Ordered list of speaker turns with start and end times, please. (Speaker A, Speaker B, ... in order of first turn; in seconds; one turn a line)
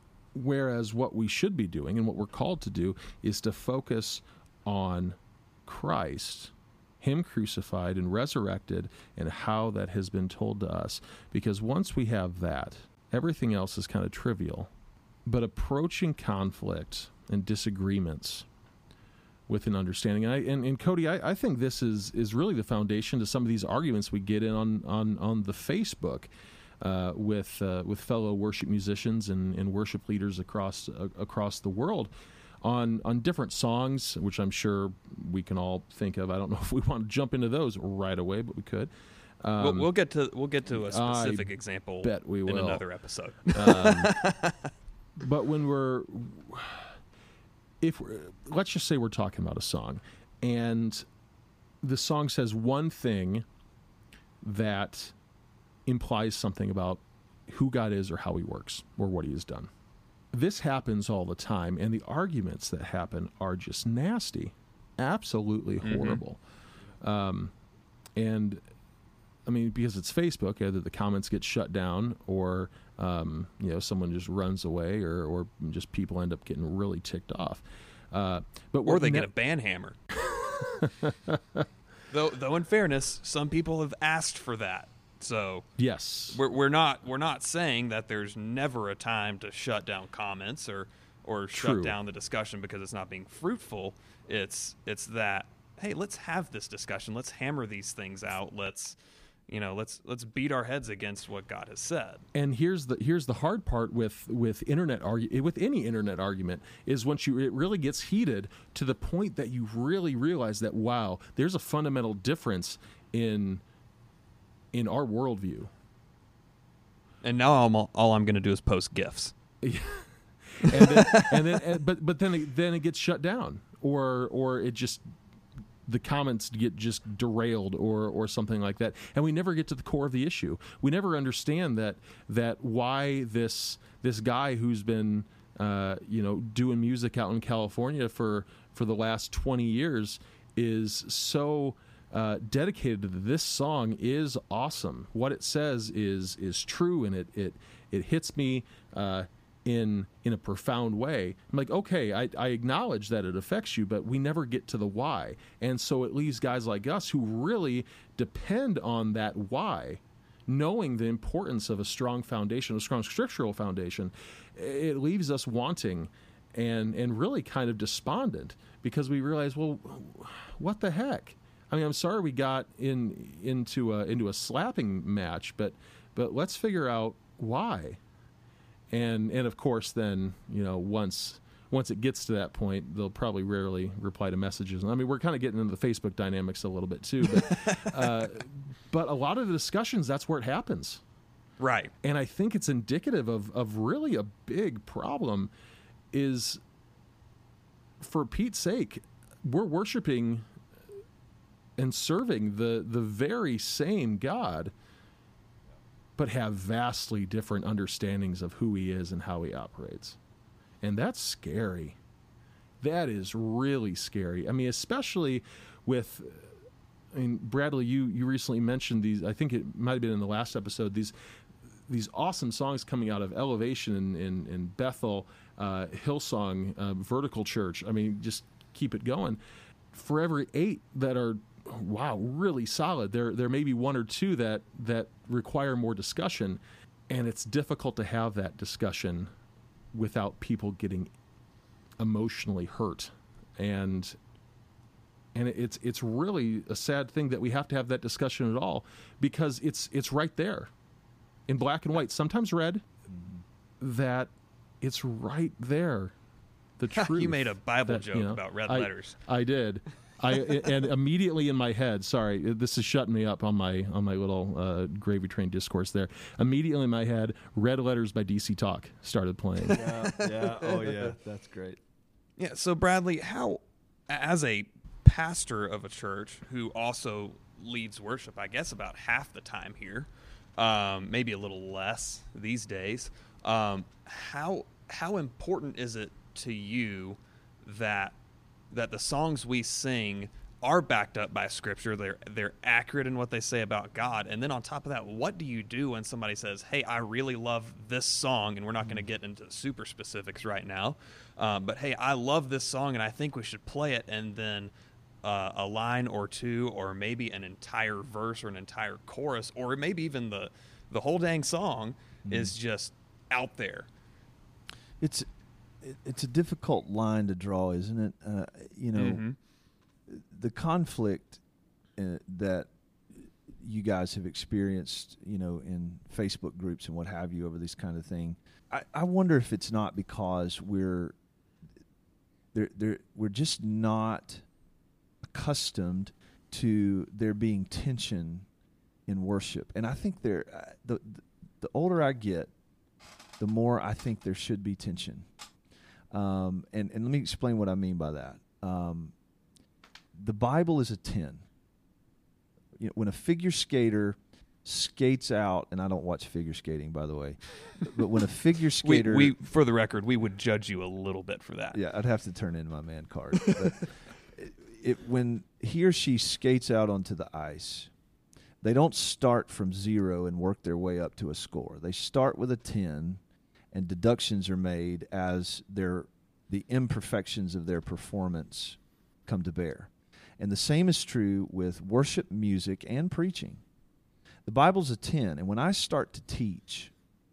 Speaker A: 0.3-14.7
Speaker A: 15.2-18.5
Speaker A: 19.5-26.3
Speaker A: 26.8-32.1
Speaker A: 32.6-38.9
Speaker A: 39.4-39.9
Speaker B: 39.6-44.7
Speaker A: 40.8-41.5
Speaker A: 42.0-42.9
Speaker A: 43.5-44.1
Speaker A: 45.2-47.0
Speaker A: 47.8-51.0
Speaker A: 51.8-53.5
Speaker A: 54.4-55.1
Speaker A: 55.9-59.7
Speaker A: 60.3-66.4
Speaker B: 65.8-66.2
Speaker A: 67.0-67.5
Speaker A: 68.2-68.6
Speaker A: 69.5-79.3
Speaker B: 78.8-80.0
Speaker A: 80.2-81.7
Speaker B: 82.1-85.7
Speaker A: 85.8-86.4
Speaker B: 86.3-99.0
Speaker A: 91.5-92.0
Speaker B: 99.5-102.2
Speaker A: 102.3-113.6
Speaker A: 114.7-115.7
Speaker B: 117.2-119.3
Speaker A: 119.6-125.0
Speaker B: 120.7-121.6
Speaker A: 125.9-178.0
Speaker A: 178.9-191.0
Speaker B: 187.3-188.1
Speaker B: 191.6-191.9
Speaker A: 192.0-195.5
Speaker A: 196.1-196.6
Speaker A: 198.0-200.5
Speaker A: 201.8-204.7
Speaker A: 206.2-210.2
Speaker A: 210.8-212.0
Speaker A: 212.8-216.5
Speaker A: 217.1-221.1
Speaker A: 221.9-229.4
Speaker A: 229.9-239.3
Speaker A: 239.9-241.1
Speaker A: 242.0-244.2
Speaker A: 245.3-250.7
Speaker A: 251.5-252.8
Speaker C: 253.1-253.4
Speaker A: 253.8-256.1
Speaker A: 256.8-269.9
Speaker B: 256.9-259.2
Speaker B: 260.4-260.7
Speaker B: 269.6-271.1
Speaker C: 269.7-271.8
Speaker B: 272.4-288.2
Speaker B: 288.7-313.9
Speaker C: 312.3-312.5
Speaker C: 315.0-315.3
Speaker C: 315.8-319.2
Speaker B: 318.9-319.4
Speaker C: 320.1-321.4
Speaker C: 322.0-331.2
Speaker C: 332.5-334.4
Speaker C: 335.2-338.5
Speaker C: 339.1-342.5
Speaker C: 343.4-345.3
Speaker C: 346.1-349.1
Speaker C: 350.1-351.4
Speaker C: 352.8-359.4
Speaker B: 358.8-361.8
Speaker C: 361.7-367.9
Speaker C: 368.6-373.2
Speaker C: 373.7-383.6
Speaker C: 384.5-386.9